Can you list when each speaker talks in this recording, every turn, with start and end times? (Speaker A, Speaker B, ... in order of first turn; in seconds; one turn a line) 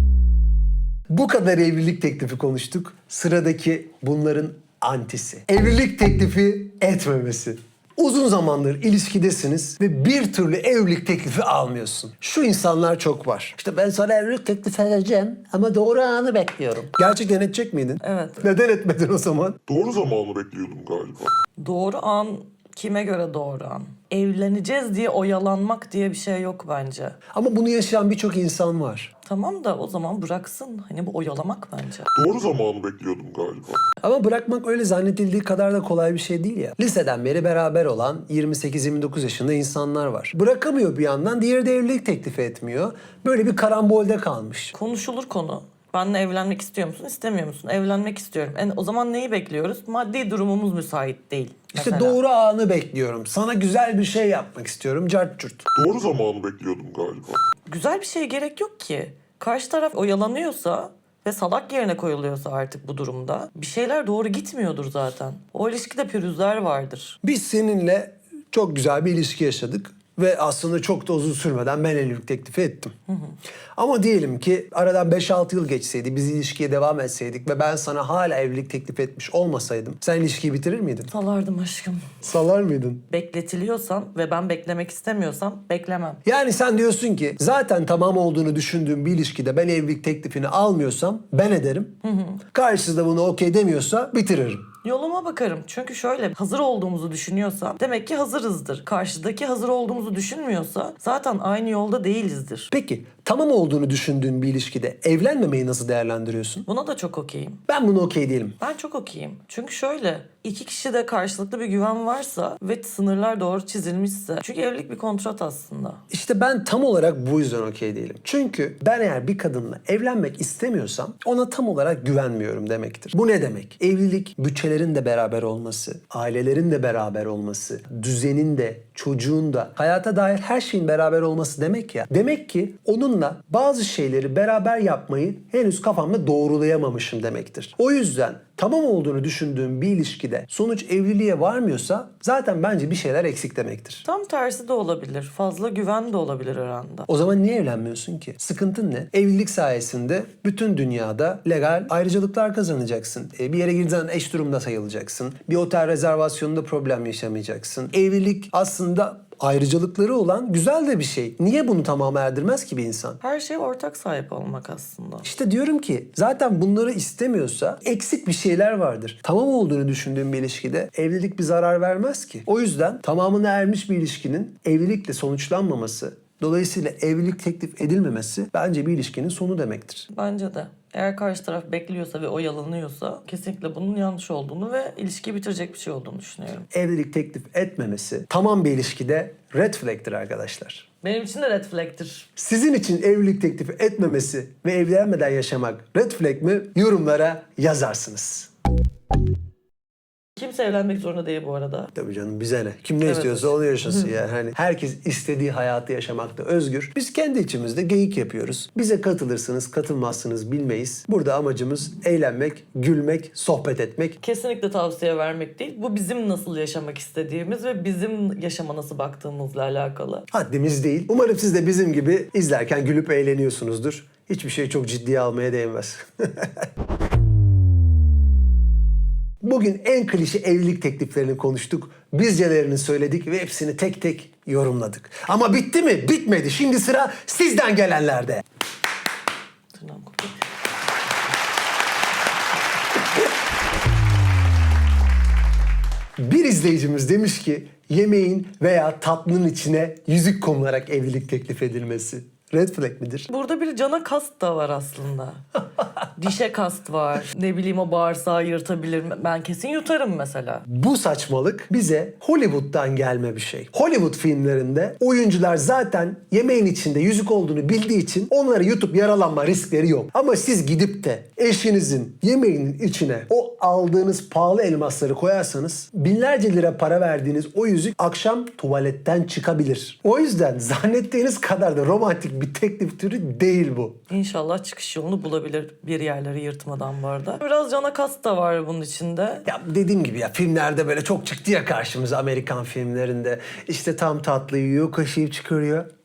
Speaker A: 1.1-19.6
Speaker B: 18.0-18.4
Speaker C: 19.7-21.3
Speaker B: 21.6-27.2
Speaker A: 27.3-29.1
Speaker B: 29.2-32.1
Speaker C: 32.1-33.9
Speaker A: 34.0-44.7
Speaker B: 44.7-52.2
Speaker A: 51.7-55.6
Speaker C: 55.7-57.4
Speaker B: 57.7-67.2
Speaker A: 67.2-72.9
Speaker B: 73.1-73.3
Speaker A: 73.8-81.1
Speaker B: 81.1-82.2
Speaker A: 82.2-83.0
Speaker B: 83.1-86.2
Speaker A: 86.2-92.0
Speaker B: 92.0-92.4
Speaker A: 92.5-94.7
Speaker B: 94.8-102.7
Speaker A: 102.7-106.7
Speaker B: 106.7-107.6
Speaker A: 107.7-108.6
Speaker B: 108.6-116.0
Speaker A: 116.1-144.0
Speaker B: 144.1-147.1
Speaker A: 147.1-163.2
Speaker B: 163.2-165.3
Speaker A: 165.2-180.1
Speaker B: 180.1-186.7
Speaker A: 186.7-190.9
Speaker B: 191.0-192.3
Speaker A: 192.3-198.5
Speaker B: 200.4-201.9
Speaker A: 201.9-214.2
Speaker B: 203.0-204.1
Speaker B: 214.2-220.3
Speaker A: 220.3-226.7
Speaker A: 229.4-238.4
Speaker B: 239.7-240.3
Speaker A: 246.2-253.3
Speaker B: 253.3-255.4
Speaker B: 256.1-260.6
Speaker A: 260.6-284.0
Speaker B: 284.1-289.4
Speaker A: 289.4-295.9